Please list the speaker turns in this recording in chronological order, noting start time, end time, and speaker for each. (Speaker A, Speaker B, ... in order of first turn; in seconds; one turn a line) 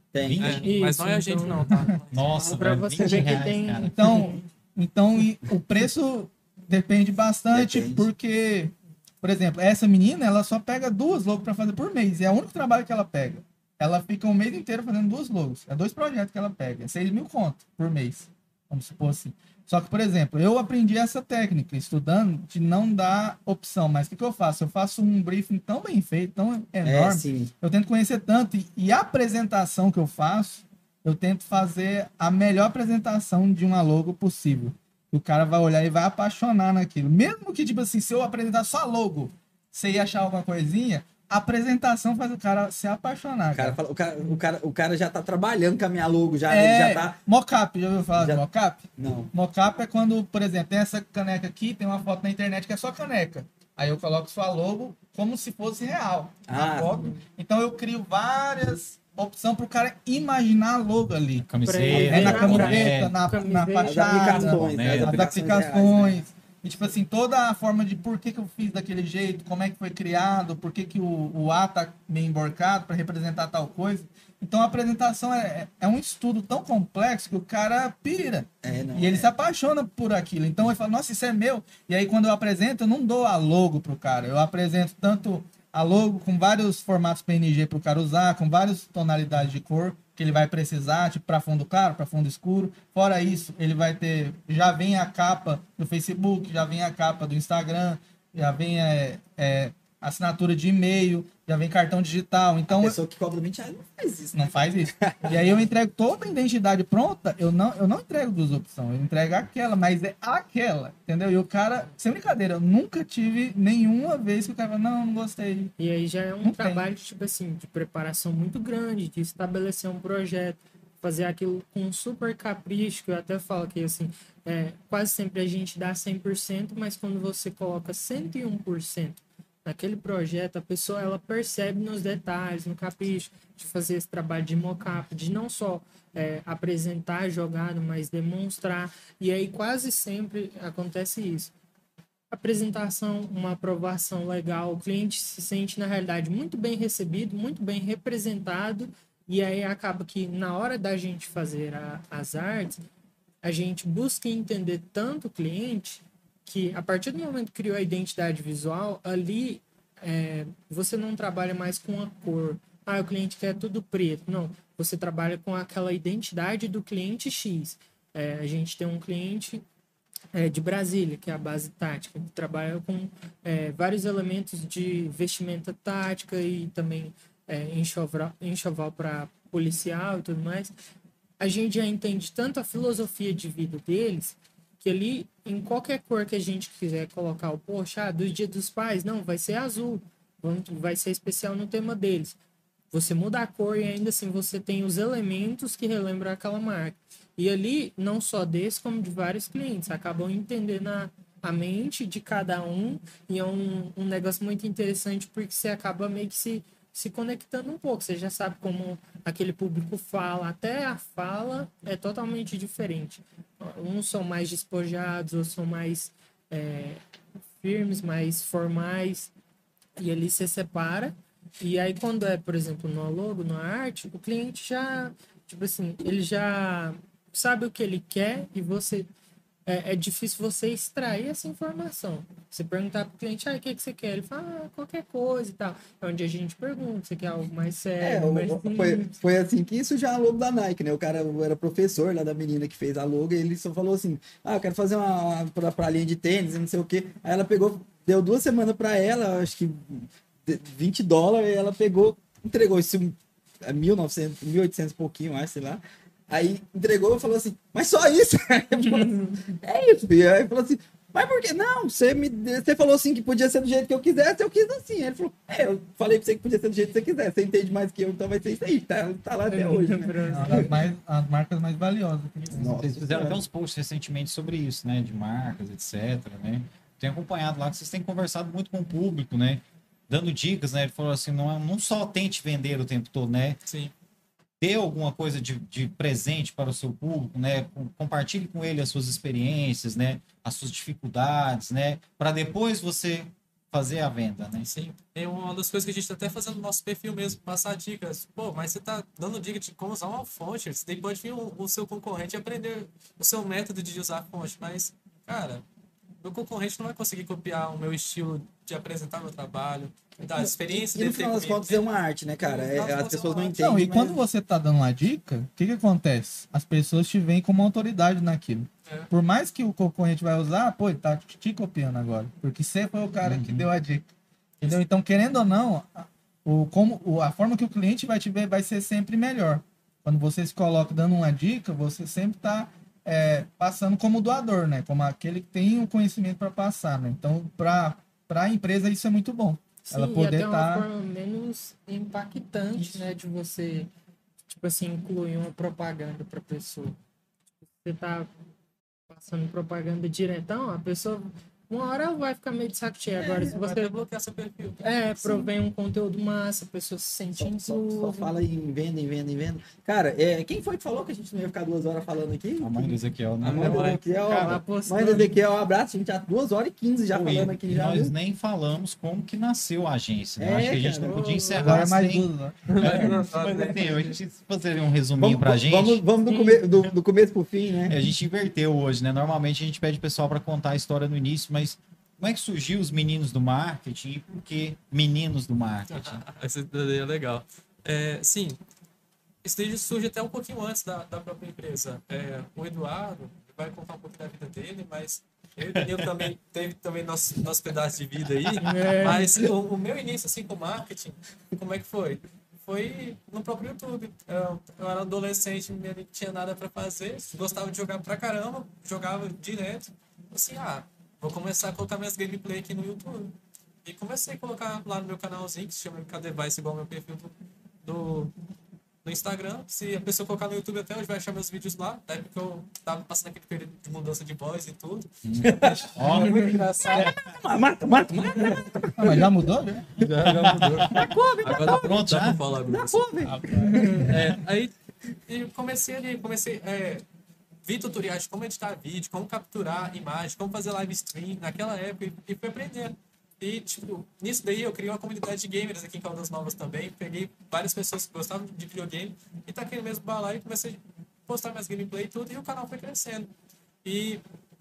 Speaker A: 0.1-0.6
Speaker B: 0.2-0.7
Speaker C: 0.4-2.8
Speaker D: 0.6-4.4
Speaker B: 2.1-4.2
Speaker A: 3.0-3.4
Speaker E: 3.9-43.8
Speaker A: 7.5-8.1
Speaker A: 26.8-27.5
Speaker A: 43.5-47.2
Speaker E: 46.5-103.0
Speaker A: 48.2-48.4
Speaker A: 49.0-49.3
Speaker A: 56.5-57.1
Speaker B: 61.4-63.2
Speaker D: 61.6-64.6
Speaker A: 61.9-62.8
Speaker A: 63.8-66.2
Speaker B: 64.4-65.7
Speaker A: 78.6-79.3
Speaker A: 102.7-105.7
Speaker E: 104.3-115.7
Speaker D: 115.8-141.5
Speaker E: 116.4-116.8
Speaker D: 142.3-152.8
Speaker D: 153.4-169.6
Speaker D: 170.3-180.7
Speaker D: 181.4-192.4
Speaker D: 192.9-217.0
Speaker D: 217.6-219.3
Speaker D: 220.0-229.1
Speaker D: 229.7-239.1
Speaker A: 238.0-270.7
Speaker D: 269.5-270.7
Speaker E: 270.3-272.8
Speaker A: 272.5-273.4
Speaker B: 272.6-283.6
Speaker C: 283.7-283.9
Speaker B: 284.6-294.7
Speaker C: 294.6-305.6
Speaker C: 306.2-313.6
Speaker A: 310.4-314.2
Speaker E: 313.5-324.1
Speaker B: 323.2-323.7
Speaker E: 324.6-340.9
Speaker D: 339.8-343.9
Speaker E: 342.8-343.0
Speaker D: 344.5-347.0
Speaker D: 347.8-348.3
Speaker D: 349.1-353.9
Speaker A: 353.1-353.6
Speaker C: 353.3-354.8
Speaker D: 354.8-358.3
Speaker A: 355.2-355.5
Speaker A: 357.4-368.1
Speaker B: 362.6-364.6
Speaker C: 363.4-364.0
Speaker D: 363.6-365.4
Speaker B: 367.1-376.0
Speaker A: 370.4-371.2
Speaker D: 371.0-371.8
Speaker E: 371.6-373.2
Speaker C: 372.6-374.1
Speaker A: 375.2-378.0
Speaker D: 376.3-376.6
Speaker B: 377.9-386.2
Speaker C: 385.9-388.6
Speaker C: 389.4-418.3
Speaker D: 398.6-399.3
Speaker C: 419.0-427.2
Speaker B: 425.2-427.3
Speaker A: 425.4-432.0
Speaker D: 426.2-426.5
Speaker C: 428.2-428.7
Speaker E: 428.9-430.7
Speaker C: 430.0-433.1
Speaker B: 430.2-432.4
Speaker A: 432.7-434.3
Speaker E: 433.2-434.1
Speaker D: 433.6-434.1
Speaker C: 434.0-434.7
Speaker C: 435.3-437.0
Speaker C: 437.6-453.3
Speaker C: 453.8-454.2